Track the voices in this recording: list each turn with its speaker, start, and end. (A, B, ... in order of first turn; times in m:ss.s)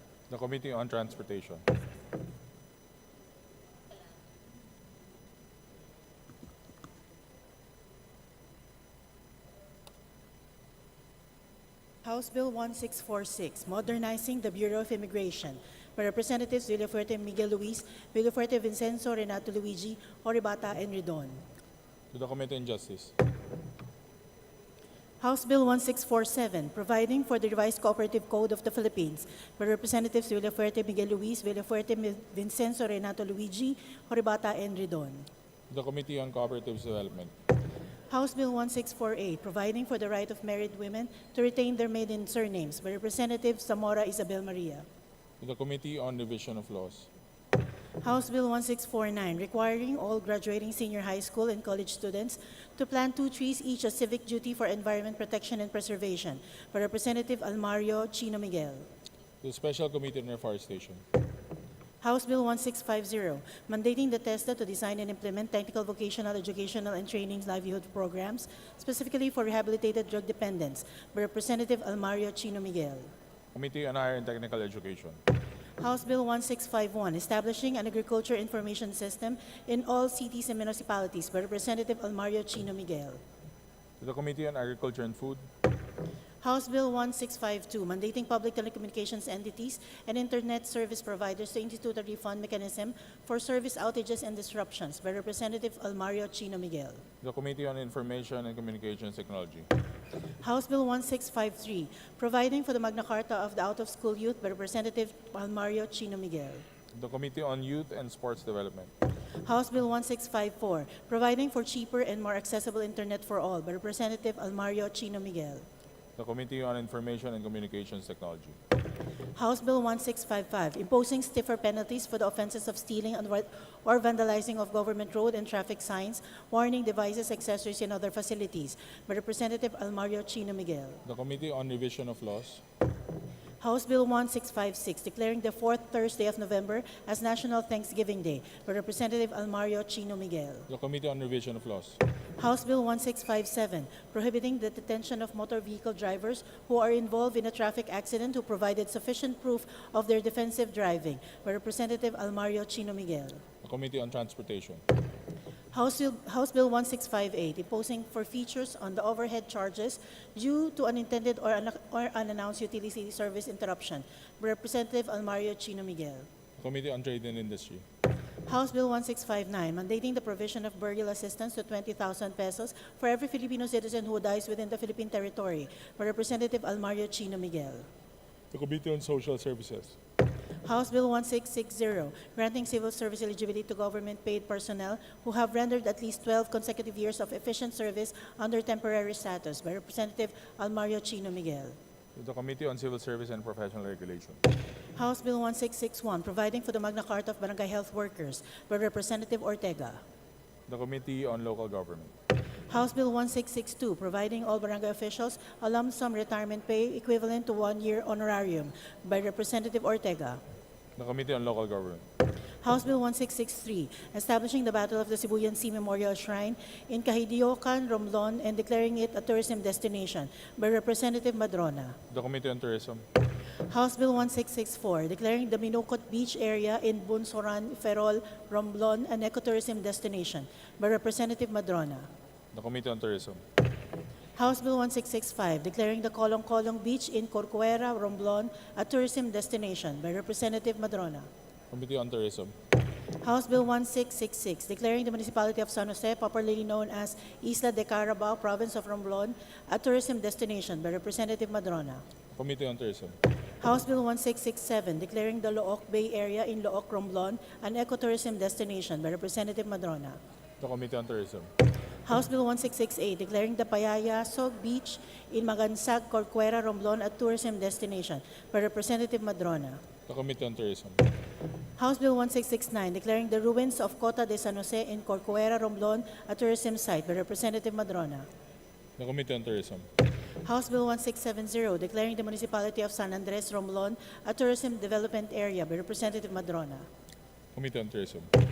0:00.3-0:01.6 A
0:12.0-0:21.4 B
0:22.1-0:23.1 A
0:25.2-0:35.3 B
0:35.7-0:37.3 A
0:38.1-0:44.8 B
0:45.4-0:47.1 A
0:48.0-0:58.9 B
0:59.4-1:01.0 A
1:02.0-1:13.1 B
1:13.5-1:15.2 A
1:15.8-1:23.2 B
1:24.0-1:25.4 A
1:26.4-1:37.0 B
1:37.2-1:39.7 A
1:40.4-1:46.6 B
1:46.9-1:48.9 A
1:49.4-1:55.6 B
1:56.2-1:58.6 A
1:59.3-2:11.0 B
2:11.0-2:12.6 A
2:13.6-2:20.7 B
2:20.7-2:22.0 A
2:22.4-2:33.4 B
2:33.6-2:34.8 A
2:35.7-2:46.3 B
2:46.6-2:47.8 A
2:48.4-2:57.9 B
2:58.5-3:00.0 A
3:00.6-3:11.8 B
3:12.2-3:14.4 A
3:15.0-3:20.0 B
3:20.7-3:22.1 A
3:22.7-3:30.4 B
3:31.0-3:32.0 A
3:32.6-3:42.0 B
3:42.1-3:43.0 A
3:43.7-3:52.1 B
3:52.5-3:53.4 A
3:54.4-4:01.3 B
4:01.7-4:02.5 A
4:03.2-4:12.0 B
4:12.3-4:13.2 A
4:13.6-4:20.2 B
4:20.6-4:21.5 A
4:22.0-4:29.8 B
4:30.1-4:31.0 A
4:31.8-4:38.3 B
4:39.0-4:39.8 A
4:40.4-4:46.8 B
4:47.5-4:48.3 A